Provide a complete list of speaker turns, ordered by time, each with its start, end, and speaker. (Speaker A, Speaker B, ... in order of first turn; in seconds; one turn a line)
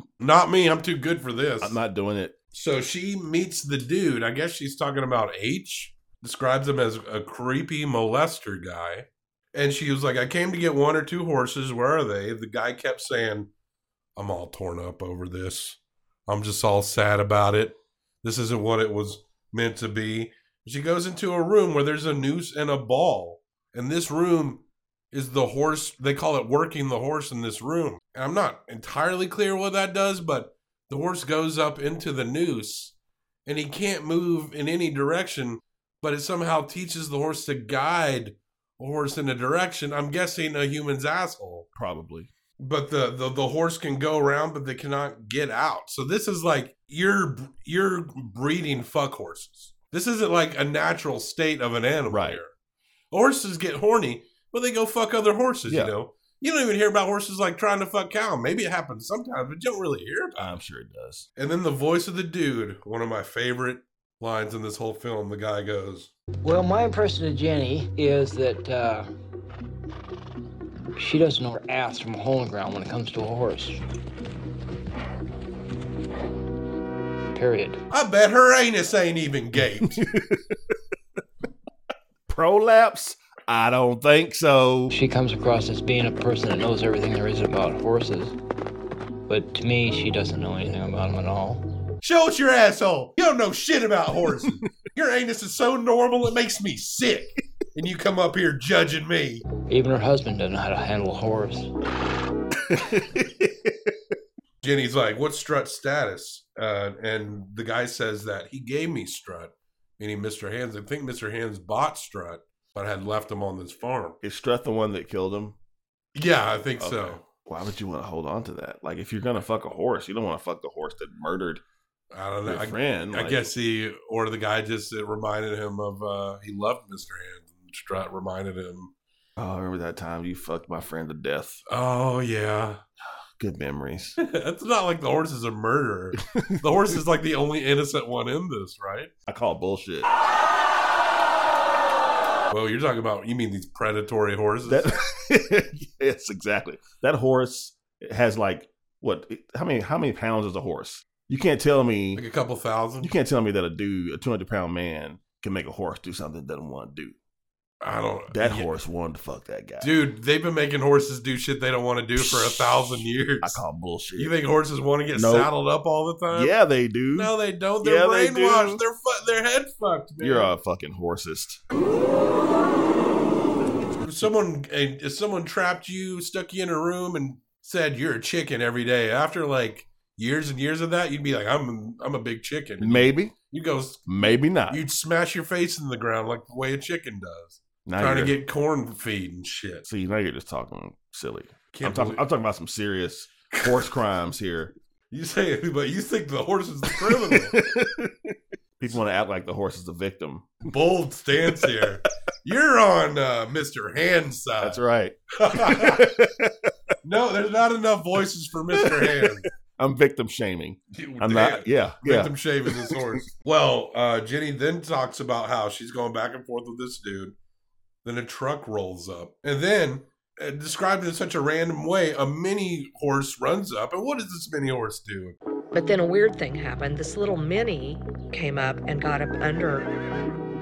Speaker A: 0.2-1.8
Speaker B: 1.6-2.3
Speaker A: 2.5-13.5
Speaker A: 14.2-32.9
Speaker A: 33.5-41.7
Speaker B: 41.7-42.3
Speaker A: 42.6-52.5
Speaker B: 52.1-52.4
Speaker A: 53.1-60.5
Speaker B: 55.7-55.9
Speaker B: 60.4-61.3
Speaker A: 61.4-66.1
Speaker C: 66.4-69.1
Speaker C: 71.0-73.8
Speaker C: 77.3-77.8
Speaker A: 77.9-80.0
Speaker B: 79.8-80.6
Speaker B: 82.3-84.9
Speaker C: 84.9-88.4
Speaker C: 89.3-91.6
Speaker A: 92.0-99.4
Speaker C: 99.7-101.7
Speaker B: 102.7-103.9
Speaker A: 104.6-114.2
Speaker B: 114.2-115.6
Speaker A: 116.1-117.2
Speaker B: 116.8-121.6
Speaker A: 122.1-128.9
Speaker B: 122.4-123.5
Speaker B: 129.3-131.6
Speaker A: 131.7-132.8
Speaker B: 133.4-134.2
Speaker A: 134.2-139.1
Speaker B: 139.3-140.1
Speaker A: 142.5-145.0
Speaker B: 144.6-152.2
Speaker A: 152.1-153.1
Speaker B: 153.0-157.2
Speaker A: 157.8-158.8
Speaker B: 158.3-160.0
Speaker A: 159.8-163.6
Speaker B: 162.2-164.3
Speaker A: 164.2-166.5
Speaker B: 165.1-165.5
Speaker B: 166.3-168.8
Speaker A: 167.1-170.5
Speaker B: 170.2-171.6
Speaker A: 174.0-189.8
Speaker B: 182.8-183.3
Speaker B: 184.1-184.8
Speaker B: 187.8-188.3
Speaker B: 189.8-194.7
Speaker A: 191.7-192.2
Speaker A: 193.5-193.8
Speaker A: 195.1-197.6
Speaker B: 197.0-200.5
Speaker A: 200.7-204.8
Speaker B: 204.6-206.7
Speaker A: 205.4-206.0
Speaker A: 207.0-209.5
Speaker B: 208.7-213.2
Speaker A: 210.9-217.3
Speaker A: 218.0-225.3
Speaker D: 225.7-229.9